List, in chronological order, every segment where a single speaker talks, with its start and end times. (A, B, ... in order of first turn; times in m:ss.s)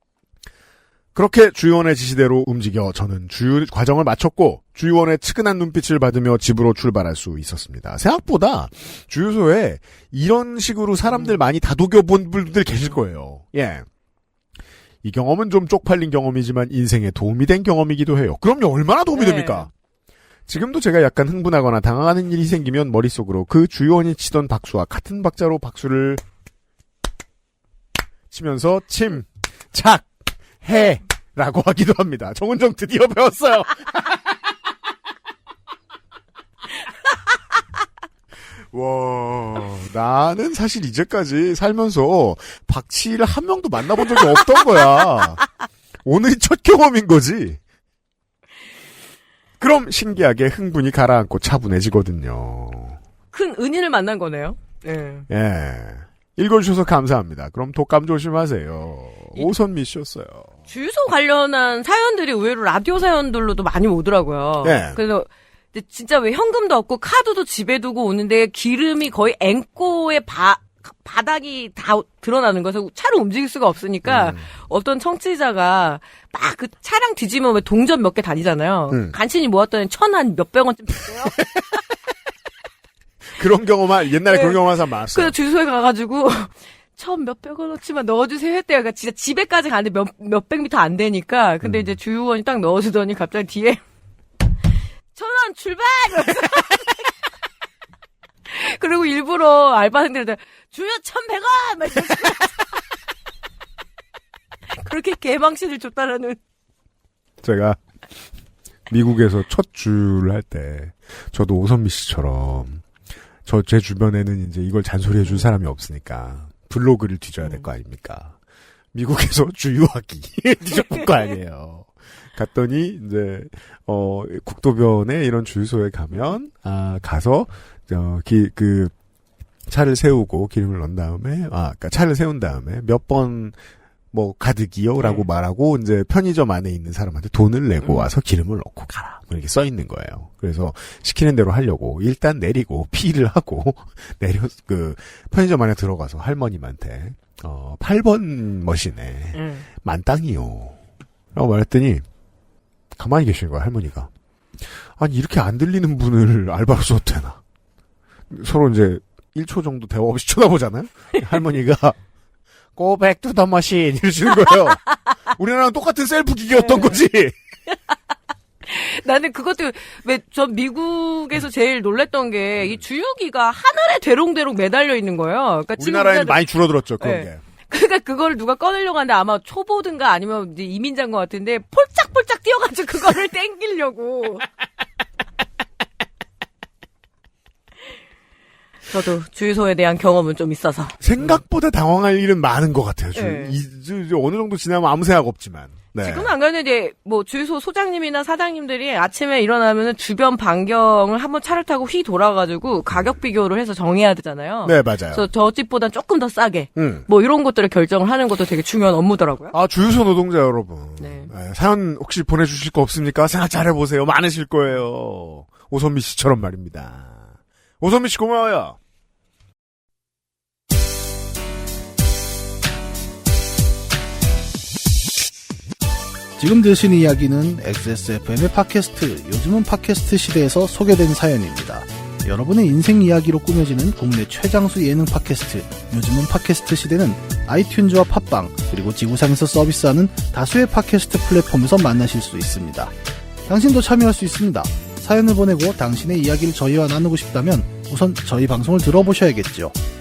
0:01.1-0:13.8 A
0:11.1-0:11.4 B
0:15.0-0:19.7 A
0:19.1-0:19.7 B
0:20.5-0:26.2 A
0:28.3-0:30.1 A
0:30.6-0:34.1 A
0:38.7-0:45.4 A
0:46.0-0:47.6 A
0:49.6-0:53.0 A
0:53.3-0:55.3 B
0:55.3-1:00.5 A
1:00.7-1:21.4 B
1:04.6-1:05.0 A
1:14.0-1:14.5 A
1:23.4-1:25.3 A
1:24.3-1:33.8 B
1:31.6-1:31.9 A
1:35.1-1:37.0 B
1:38.5-1:42.6 B
1:44.8-1:46.4 B
1:47.4-1:47.8 A
1:48.9-1:52.8 A
1:53.4-1:58.3 A
1:58.9-2:08.9 A
2:00.7-2:01.0 B
2:09.7-2:13.6 A
2:14.1-2:30.8 A
2:15.0-2:15.3 B
2:17.8-2:18.1 B
2:29.3-2:29.7 B
2:31.3-2:32.0 A
2:33.0-2:34.1 A
2:35.0-2:37.4 A
2:38.3-2:41.9 A
2:42.8-2:47.3 A
2:48.6-2:56.4 B
2:55.8-2:57.4 A
2:57.0-3:04.4 B
3:08.9-3:11.4 B
3:11.0-3:16.3 A
3:13.1-3:13.6 B
3:16.0-3:29.5 B
3:24.6-3:25.2 A
3:26.8-3:27.0 A
3:29.5-3:37.2 A
3:31.0-3:31.3 B
3:37.8-3:38.8 A
3:46.4-4:02.9 C
4:03.5-4:09.8 C